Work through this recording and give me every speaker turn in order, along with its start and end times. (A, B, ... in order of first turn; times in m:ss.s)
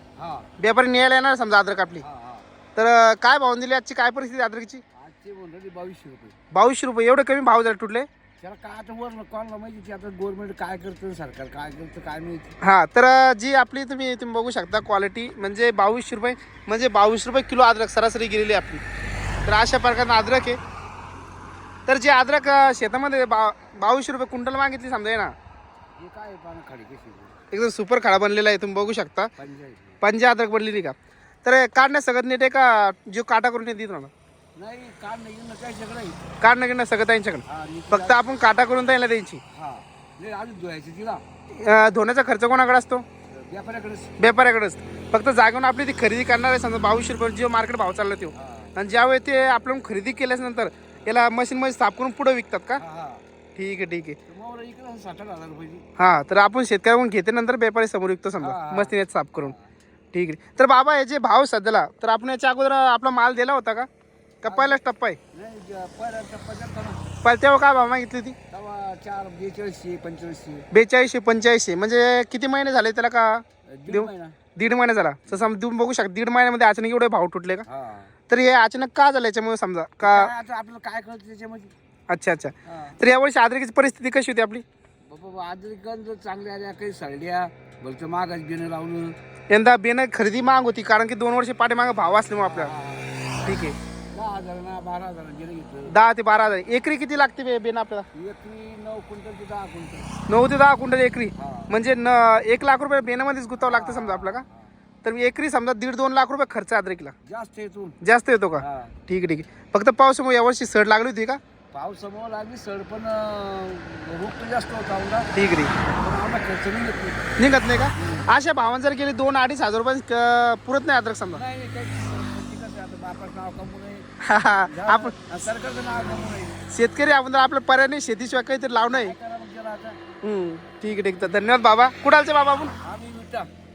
0:00.2-0:00.5 A
0:00.6-0:02.0 B
0:02.0-0:02.4 A
0:02.8-0:04.8 B
0:04.9-0:06.4 A
0:06.5-0:08.1 B
0:08.4-0:12.5 A
0:12.6-0:18.8 B
0:19.4-0:20.6 B
0:21.9-0:25.3 B
0:26.0-0:27.3 A
0:27.5-0:29.3 B
0:29.4-0:30.0 A
0:30.0-0:34.1 B
0:34.6-0:36.2 A
0:36.4-0:39.4 B
0:37.4-0:38.3 A
0:39.5-0:41.2 A
0:41.5-0:43.0 B
0:43.3-0:44.1 A
0:44.2-0:52.8 B
0:48.3-0:48.7 A
0:52.8-0:53.2 A
0:53.6-0:54.2 B
0:54.3-0:55.8 A
0:56.0-0:59.5 B
0:58.4-0:59.7 A
1:00.1-1:03.9 B
1:04.4-1:05.2 B
1:04.4-1:04.8 A
1:05.3-1:07.0 A
1:07.2-1:08.4 B
1:08.5-1:10.7 A
1:10.7-1:17.6 B
1:13.7-1:14.4 A
1:17.6-1:18.1 A
1:18.3-1:20.3 B
1:20.0-1:21.7 A
1:22.1-1:24.6 B
1:22.6-1:23.0 A
1:25.0-1:29.2 A
1:29.5-1:32.7 B
1:32.4-1:33.1 A
1:33.4-1:33.8 B
1:34.1-1:36.0 A
1:35.9-1:38.1 B
1:38.1-1:40.1 A
1:40.3-1:44.4 B
1:41.4-1:41.7 A
1:43.6-1:44.7 A
1:45.0-1:47.1 B
1:47.2-1:48.0 A
1:48.0-1:51.4 B
1:48.6-1:49.0 A
1:51.7-1:57.3 A
1:55.3-1:55.7 B
1:57.4-2:01.4 B
1:58.0-1:58.3 A
2:01.3-2:04.1 A
2:04.2-2:05.1 B
2:04.6-2:06.6 A
2:06.7-2:09.1 B
2:08.7-2:10.0 A
2:10.2-2:12.7 B
2:12.8-2:13.5 A